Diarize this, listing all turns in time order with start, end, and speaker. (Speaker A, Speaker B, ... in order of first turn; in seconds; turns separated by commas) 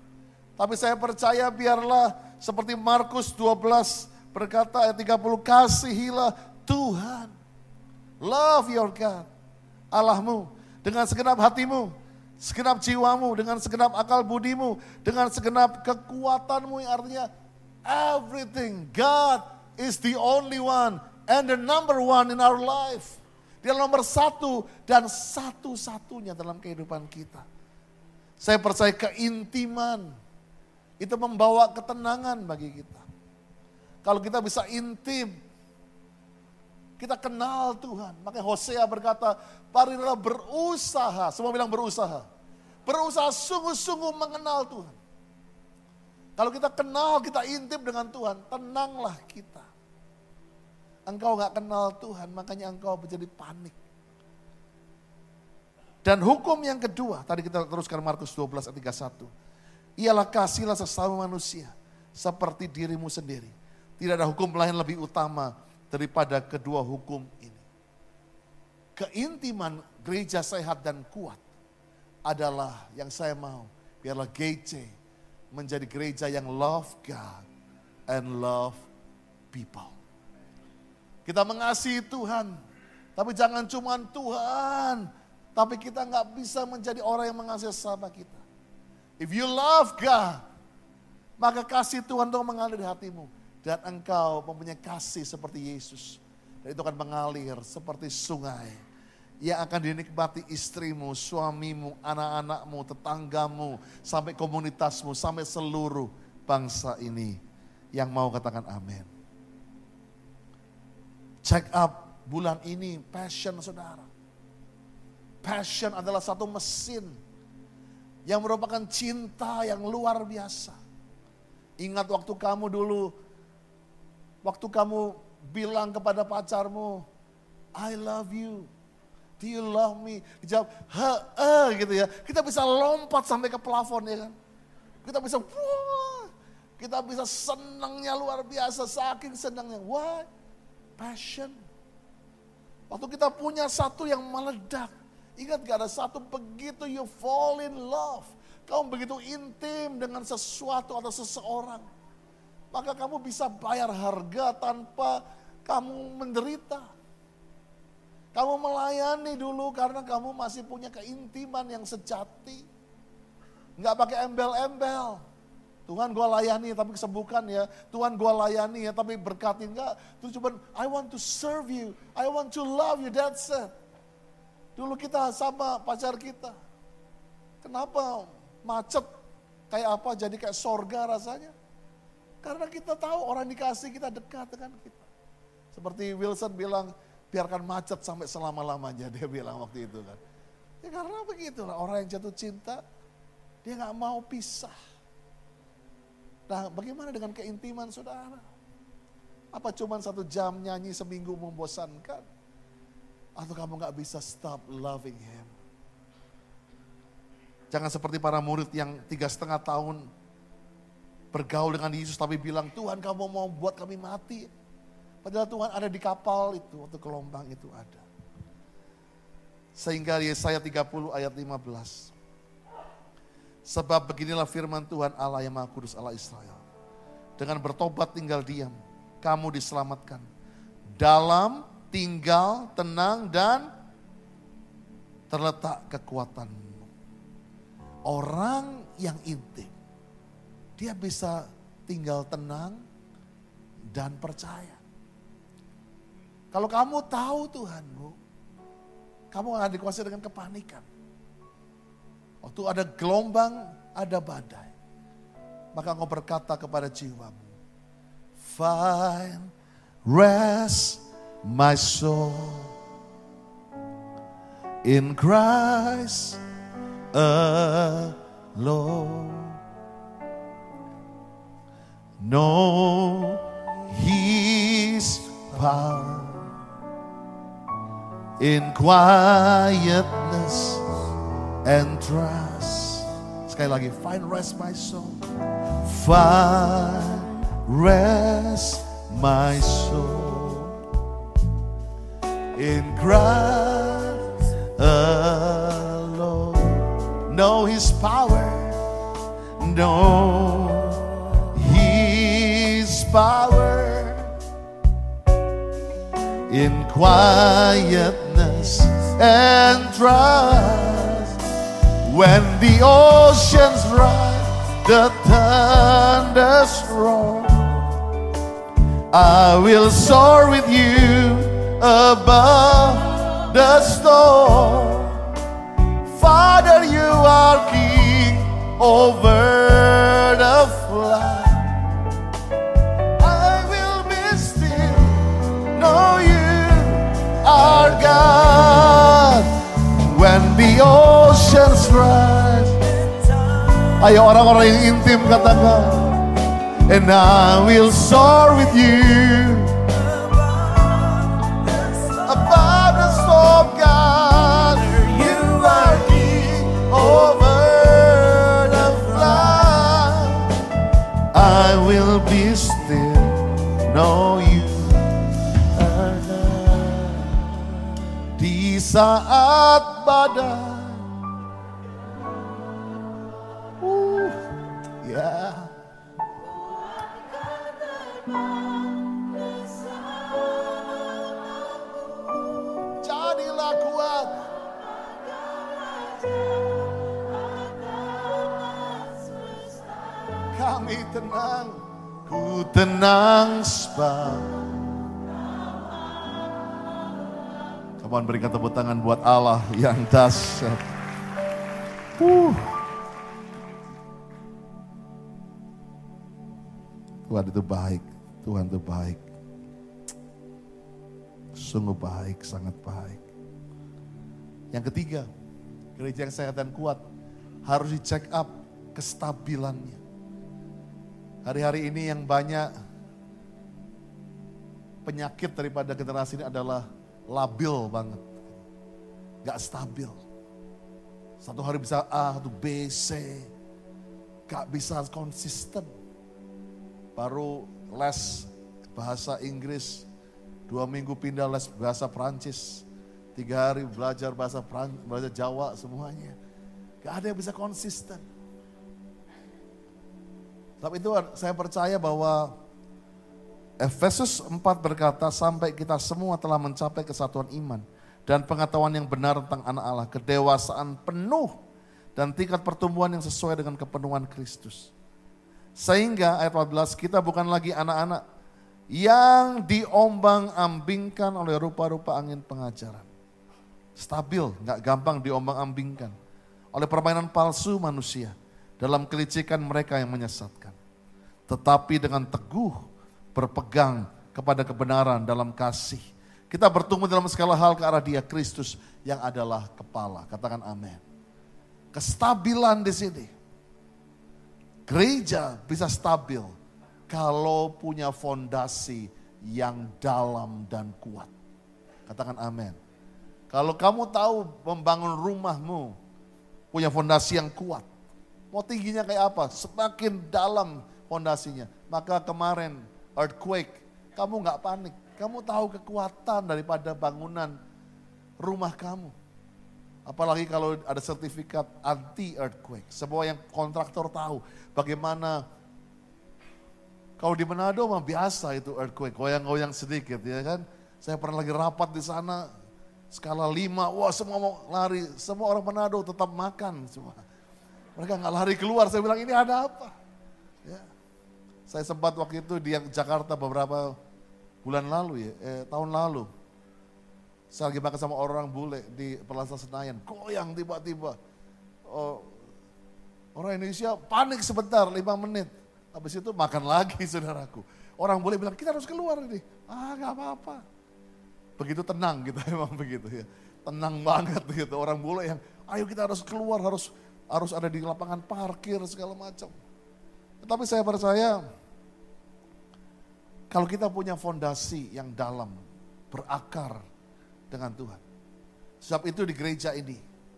Speaker A: 0.6-7.3, Speaker A: 8.2-9.3, Speaker A: 9.9-17.3, Speaker A: 17.9-27.4, Speaker A: 28.4-30.1, Speaker A: 31.0-33.1, Speaker A: 34.0-35.3, Speaker A: 37.0-42.2, Speaker A: 42.9-45.0, Speaker A: 46.4-49.7, Speaker A: 51.1-53.8, Speaker A: 56.0-59.3, Speaker A: 60.0-67.7, Speaker A: 69.0-71.4, Speaker A: 72.3-74.9, Speaker A: 75.5-77.4, Speaker A: 78.1-78.8, Speaker A: 79.5-80.0, Speaker A: 81.3-82.5, Speaker A: 83.2-88.4, Speaker A: 89.2-90.4, Speaker A: 91.4-98.8, Speaker A: 99.4-107.4, Speaker A: 107.9-109.1, Speaker A: 111.4-114.1, Speaker A: 115.4-117.2, Speaker A: 118.3-120.8, Speaker A: 121.8-123.1, Speaker A: 124.4-127.0, Speaker A: 127.8-128.7, Speaker A: 129.4-134.4, Speaker A: 135.0-140.3, Speaker A: 141.0-141.6, Speaker A: 142.9-151.9, Speaker A: 152.7-156.9, Speaker A: 158.3-162.7, Speaker A: 163.8-165.2, Speaker A: 165.9-173.7, Speaker A: 174.8-176.5, Speaker A: 177.6-179.1, Speaker A: 179.7-181.5, Speaker A: 182.4-185.1, Speaker A: 185.7-190.2, Speaker A: 190.8-192.8, Speaker A: 193.6-194.8, Speaker A: 196.5-198.4, Speaker A: 199.5-202.2, Speaker A: 203.4-205.5, Speaker A: 207.7-210.1, Speaker A: 211.3-214.5, Speaker A: 215.2-218.1, Speaker A: 219.8-222.1, Speaker A: 223.7-226.6, Speaker A: 227.4-230.3, Speaker A: 231.0-233.7, Speaker A: 235.3-236.9, Speaker A: 238.1-239.7, Speaker A: 240.8-242.8, Speaker A: 243.9-244.8, Speaker A: 246.5-248.2, Speaker A: 249.3-250.9, Speaker A: 252.4-254.7, Speaker A: 255.8-257.6, Speaker A: 258.4-259.5, Speaker A: 260.1-262.7, Speaker A: 264.9-266.4, Speaker A: 267.1-269.6, Speaker A: 272.2-276.5, Speaker A: 278.4-280.9, Speaker A: 281.6-285.2, Speaker A: 285.8-290.8, Speaker A: 292.6-298.8, Speaker A: 299.6-304.3, Speaker A: 306.5-311.4, Speaker A: 312.0-317.9, Speaker A: 319.1-325.2, Speaker A: 326.0-331.7, Speaker A: 333.2-342.9, Speaker A: 343.9-346.3, Speaker A: 346.9-360.5, Speaker A: 361.3-367.7, Speaker A: 368.3-371.1, Speaker A: 373.8-374.4, Speaker A: 375.0-375.7, Speaker A: 382.8-384.5, Speaker A: 390.5-394.6, Speaker A: 398.0-400.8, Speaker A: 402.2-402.7, Speaker A: 407.3-409.2, Speaker A: 411.6-413.2, Speaker A: 414.7-415.3, Speaker A: 416.0-417.0, Speaker A: 417.7-420.0, Speaker A: 421.4-422.7, Speaker A: 425.0-428.5, Speaker A: 429.4-430.2, Speaker A: 431.4-433.5, Speaker A: 434.5-435.9, Speaker A: 437.1-440.1, Speaker A: 440.7-446.4, Speaker A: 447.0-448.2, Speaker A: 450.8-452.5, Speaker A: 453.8-461.5, Speaker A: 462.1-464.9, Speaker A: 465.8-468.2, Speaker A: 468.9-473.1, Speaker A: 474.0-476.1, Speaker A: 476.7-480.8, Speaker A: 481.5-491.0, Speaker A: 491.9-493.3, Speaker A: 494.9-496.5, Speaker A: 497.1-501.3, Speaker A: 502.1-502.8, Speaker A: 503.5-505.9, Speaker A: 506.7-507.9, Speaker A: 508.5-517.5, Speaker A: 518.4-519.1, Speaker A: 520.1-525.4, Speaker A: 527.2-532.5, Speaker A: 533.1-537.2, Speaker A: 538.0-539.9, Speaker A: 541.7-543.9, Speaker A: 544.6-546.3, Speaker A: 547.5-551.1, Speaker A: 551.9-552.4, Speaker A: 553.4-560.6, Speaker A: 561.6-569.6, Speaker A: 570.4-571.4, Speaker A: 573.5-575.6, Speaker A: 576.1-576.8, Speaker A: 577.5-578.0, Speaker A: 578.8-580.0